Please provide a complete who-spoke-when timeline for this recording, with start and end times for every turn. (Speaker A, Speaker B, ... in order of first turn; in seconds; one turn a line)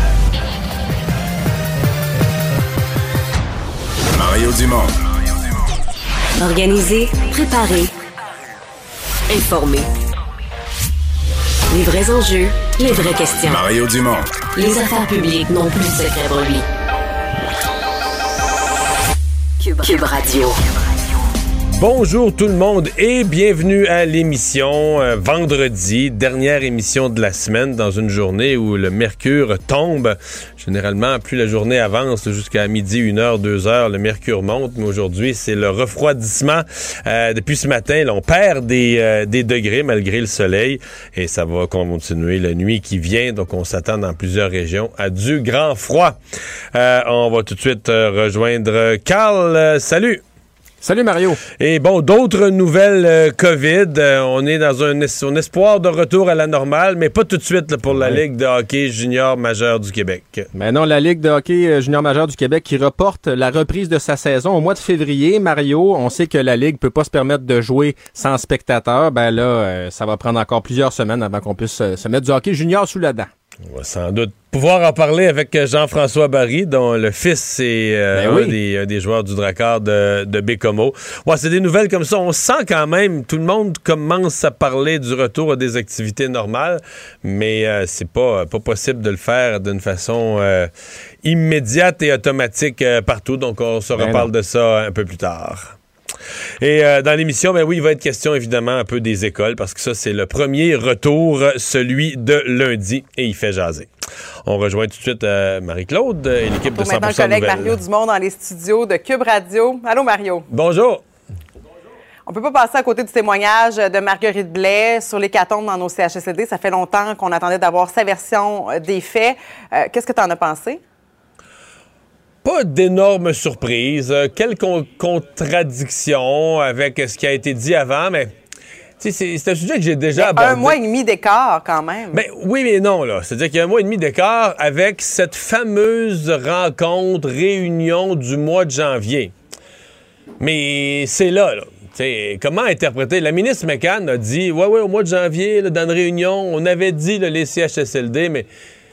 Speaker A: 4.1-5.5
Speaker B: 6.4-7.9
Speaker B: 9.3-9.9
Speaker B: 11.7-13.6
Speaker A: 13.1-14.3
Speaker B: 14.5-16.7
Speaker B: 19.6-20.6
Speaker C: 21.8-46.1
Speaker C: 46.7-50.2
Speaker D: 50.8-51.4
Speaker C: 51.6-60.5
Speaker D: 57.9-58.2
Speaker D: 60.5-73.3
Speaker C: 73.7-90.7
Speaker D: 78.1-78.6
Speaker C: 91.2-95.8
Speaker D: 93.9-94.3
Speaker C: 96.6-103.9
Speaker C: 104.5-107.8
Speaker E: 106.7-110.5
Speaker C: 110.5-111.0
Speaker E: 112.2-120.8
Speaker C: 122.4-128.3
Speaker C: 129.0-130.8
Speaker E: 130.2-132.2
Speaker C: 132.1-139.3
Speaker C: 140.4-148.5